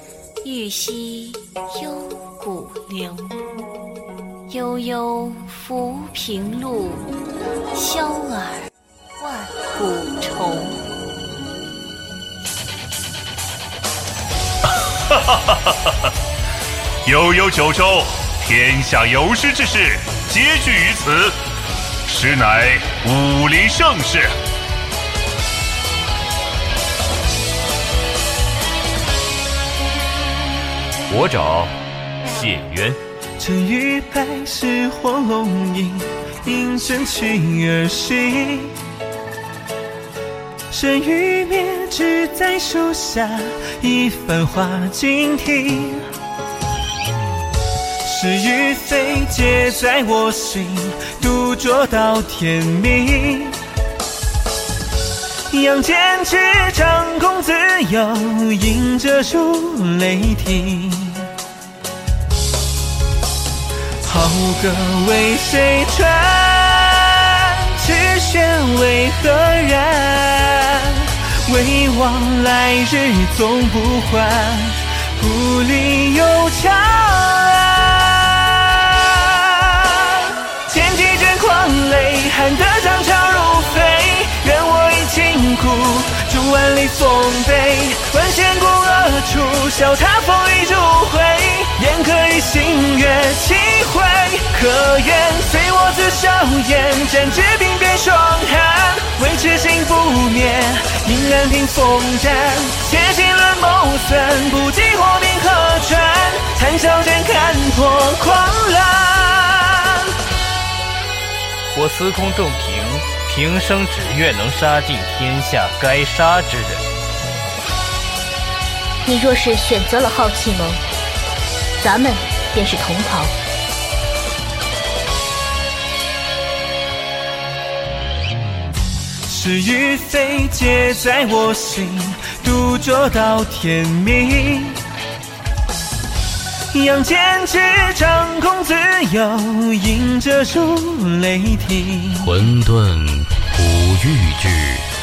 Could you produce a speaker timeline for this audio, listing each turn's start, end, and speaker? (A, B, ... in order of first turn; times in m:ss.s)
0:00.4-0:03.3 A
0:04.5-0:07.1 A
0:07.7-0:10.8 A
0:15.1-0:15.6 B
0:17.0-0:21.3 B
0:22.0-0:24.3 B
0:31.1-0:31.7 B
0:32.2-0:33.0 B
0:33.4-0:38.7 C
0:40.7-0:46.1 C
0:48.0-0:53.6 C
0:55.5-1:01.3 C
1:04.0-1:50.1 C
1:51.7-1:56.8 D
1:59.0-2:00.8 E
2:01.8-2:03.3 E
2:09.2-2:14.8 C
2:16.7-2:22.4 C
2:22.2-2:24.9 F